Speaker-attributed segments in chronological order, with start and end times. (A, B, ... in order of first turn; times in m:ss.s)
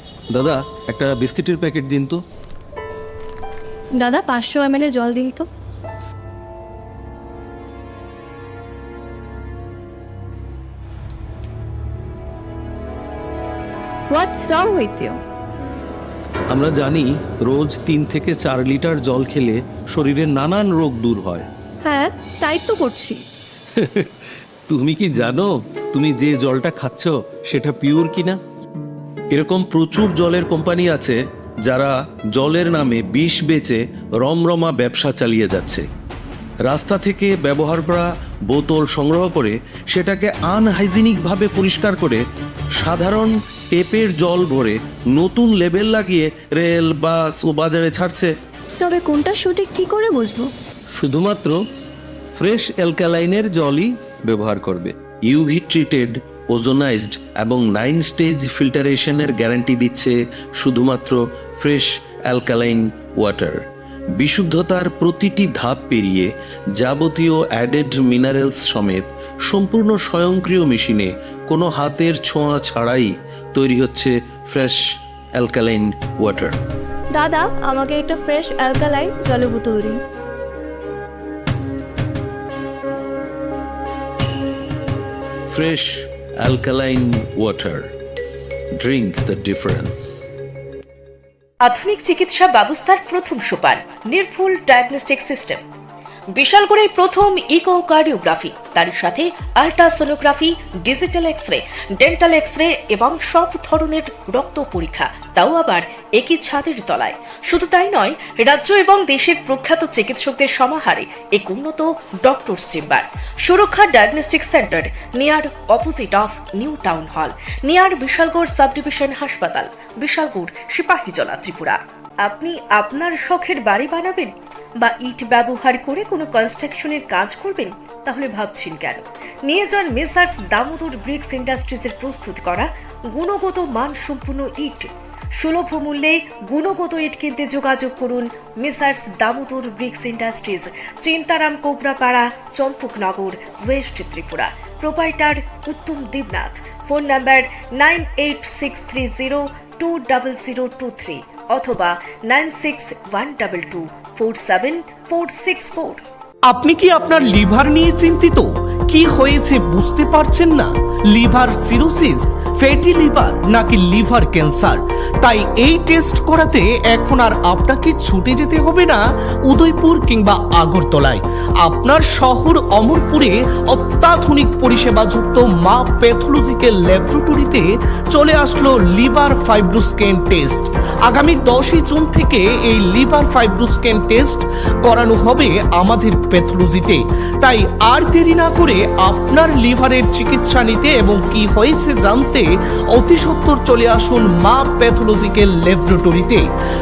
0:00.3-0:02.2 A
0:04.0-0:05.5 B
0:14.1-0:15.2 B
0:16.5-0:21.5 A
0:21.8-0:23.2 B
0:23.8-0:24.1 A
0:24.7-0:28.4 A
0:29.3-0:35.9 A
0:36.7-0:42.2 A
0:42.8-0:48.3 A
0:48.8-0:50.5 B
0:51.0-0:51.6 A
0:52.4-1:03.6 A
1:04.2-1:14.8 A
1:15.4-1:16.6 A
1:17.1-1:20.0 B
1:25.5-1:27.9 A
1:28.8-1:30.2 A
1:31.6-1:35.6 C
1:36.3-2:36.0 C
2:36.5-3:16.4 D